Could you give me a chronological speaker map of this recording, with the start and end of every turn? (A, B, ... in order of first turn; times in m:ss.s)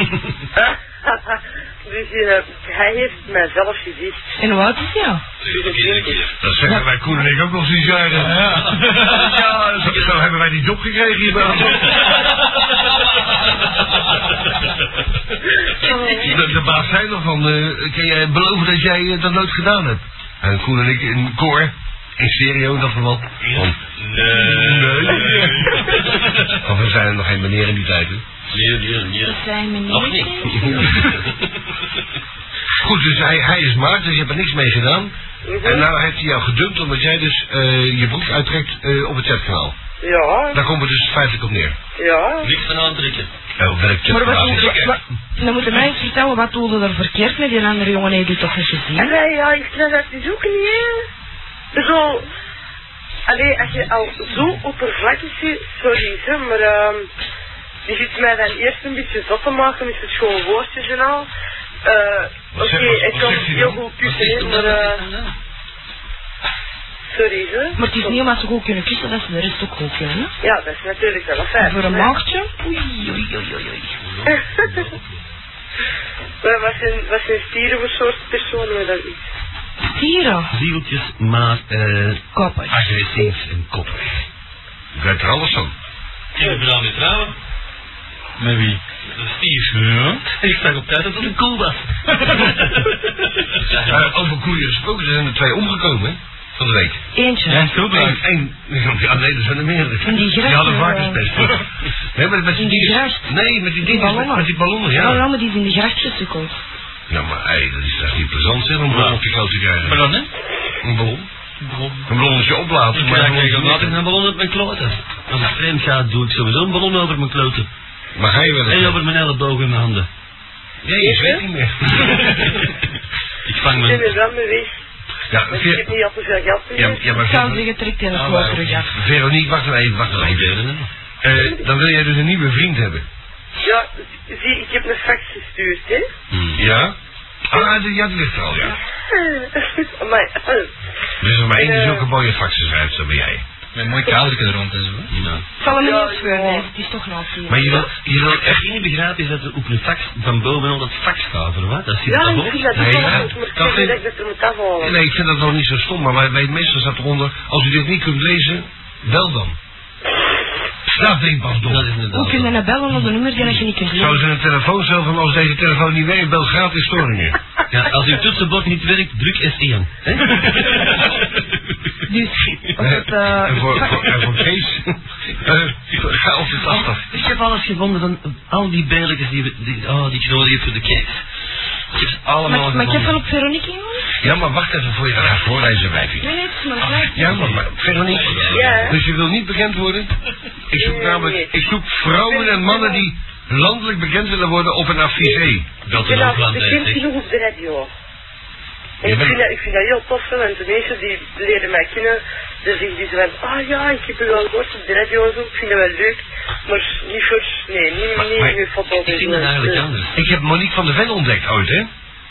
0:00.6-0:04.2 A
0:04.4-0:05.2 B
0:05.4-0:06.4 C
0:05.5-0:06.1 A
0:06.4-0:12.0 D
0:08.3-0:09.3 E
0:08.4-0:10.1 C
0:15.8-0:16.3 A
0:16.2-0:23.8 D
0:23.6-0:25.5 C
0:24.4-0:25.7 D
0:26.6-0:28.2 D
0:28.5-0:31.3 C
0:29.2-0:31.0 B
0:32.8-0:39.8 D
0:35.4-0:35.9 A
0:40.0-0:40.6 A
0:40.5-0:41.8 D
0:42.0-0:42.5 A
0:42.4-0:43.3 C
0:43.6-0:45.0 D
0:44.1-0:49.2 B
0:49.0-0:51.0 A
0:51.7-0:52.3 A
0:53.3-0:57.1 A
0:57.9-1:01.3 A
1:01.8-1:05.0 A
1:02.5-1:03.8 D
1:04.0-1:05.3 C
1:07.1-1:08.2 A
1:07.8-1:10.3 B
1:10.4-1:12.1 A
1:11.6-1:13.6 B
1:14.0-1:15.2 C
1:14.3-1:14.8 A
1:16.4-1:19.2 A
1:19.9-1:20.5 B
1:20.5-1:24.2 C
1:22.3-1:22.8 B
1:25.0-1:25.7 D
1:26.3-1:27.3 C
1:28.4-1:28.8 E
1:29.2-1:33.0 C
1:29.7-1:30.2 E
1:33.9-1:37.0 D
1:37.2-1:37.7 B
1:37.5-1:38.2 E
1:37.8-1:45.2 D
1:40.0-1:41.3 B
1:42.6-1:46.6 B
1:47.1-1:50.1 D
1:48.9-1:49.2 E
1:49.8-1:50.3 E
1:50.8-1:51.3 D
1:51.6-1:52.1 E
1:52.1-1:54.0 D
1:52.9-1:57.7 C
1:58.2-1:59.0 D
1:58.7-2:00.1 C
2:00.8-2:02.4 D
2:01.0-2:01.4 A
2:03.5-2:04.2 C
2:03.7-2:04.7 A
2:05.3-2:05.9 D
2:05.5-2:07.0 A
2:06.8-2:07.7 D
2:07.2-2:08.9 B
2:08.1-2:08.9 E
2:08.9-2:10.6 D
2:10.1-2:10.9 C
2:11.2-2:13.0 D
2:13.6-2:16.1 A
2:16.3-2:16.6 C
2:16.6-2:17.0 D
2:17.5-2:18.8 D
2:19.1-2:20.7 A
2:21.2-2:23.4 D
2:21.6-2:22.1 A
2:23.7-2:25.1 E
2:25.1-2:25.4 C
2:25.6-2:27.9 B
2:25.6-2:26.7 A
2:27.5-2:28.6 D
2:28.1-2:33.2 C
2:32.1-2:35.0 A
2:32.7-2:34.0 D
2:34.8-2:39.6 D
2:40.9-2:41.9 D
2:41.6-2:42.6 C
2:42.1-2:44.2 B
2:43.9-2:47.4 D
2:47.7-2:51.2 C
2:52.1-2:54.2 B
2:52.8-2:57.0 D
2:56.7-3:01.2 C
3:01.9-3:03.1 C
3:02.4-3:04.1 B
3:04.2-3:06.3 D
3:06.2-3:07.3 B
3:06.9-3:07.6 E
3:07.1-3:10.1 D
3:08.1-3:09.0 C
3:08.5-3:09.0 A
3:10.7-3:15.7 D
3:10.7-3:11.5 A
3:12.1-3:13.1 A
3:15.8-3:17.1 C
3:15.9-3:17.9 A
3:19.0-3:29.8 A
3:19.0-3:19.4 D
3:28.2-3:28.6 D
3:29.0-3:30.2 C
3:30.1-3:31.9 D